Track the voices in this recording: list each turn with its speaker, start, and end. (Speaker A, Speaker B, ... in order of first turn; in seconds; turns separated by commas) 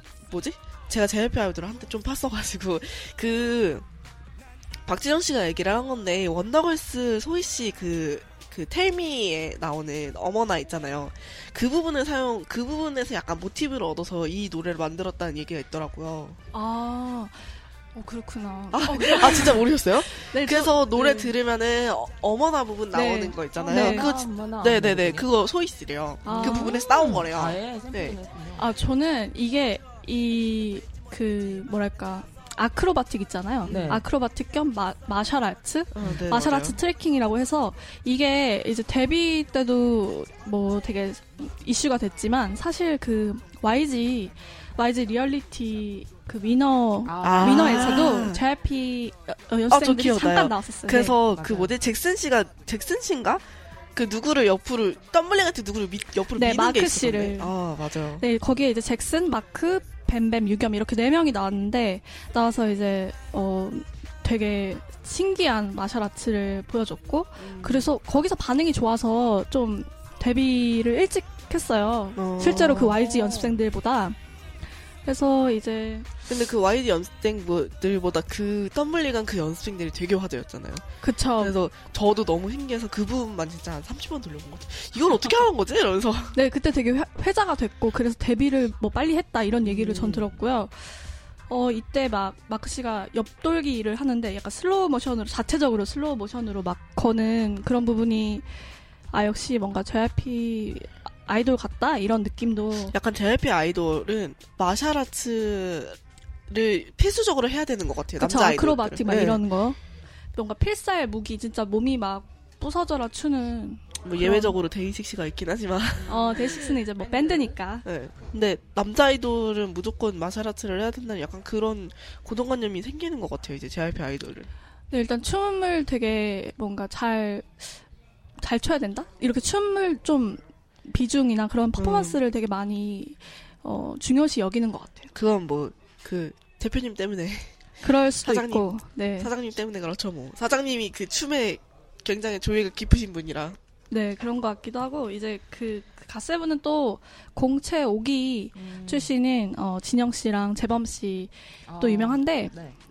Speaker A: 0.2-3.9, Speaker A: 4.8-16.4, Speaker B: 16.5-21.3, Speaker A: 18.7-28.2, Speaker B: 22.9-24.1, Speaker C: 23.6-25.3, Speaker B: 26.2-27.2, Speaker C: 26.2-28.7, Speaker B: 28.6-51.2, Speaker A: 33.6-34.0, Speaker C: 33.7-34.0, Speaker A: 35.9-36.8, Speaker C: 47.1-48.3, Speaker A: 47.2-48.4, Speaker A: 49.7-53.4, Speaker C: 51.4-51.7, Speaker A: 54.0-58.2, Speaker B: 56.4-57.5, Speaker B: 58.2-74.2, Speaker A: 67.4-67.9, Speaker A: 72.2-73.0, Speaker C: 72.6-73.6, Speaker B: 75.0-76.1, Speaker A: 76.3-80.8, Speaker B: 81.0-81.5, Speaker A: 81.4-86.4, Speaker B: 86.3-98.6, Speaker A: 89.6-90.3, Speaker B: 99.1-103.0, Speaker A: 102.9-106.0, Speaker A: 106.5-109.4, Speaker B: 108.2-109.8, Speaker B: 110.3-114.6, Speaker A: 114.0-116.4, Speaker C: 116.0-117.6, Speaker B: 116.1-117.8, Speaker A: 117.8-124.5, Speaker B: 124.9-127.8, Speaker B: 128.4-135.1, Speaker A: 131.8-132.2, Speaker A: 135.1-137.6, Speaker B: 137.8-139.3, Speaker A: 138.2-138.7, Speaker A: 139.2-143.6, Speaker B: 143.9-152.5, Speaker C: 148.6-149.1, Speaker C: 151.7-152.8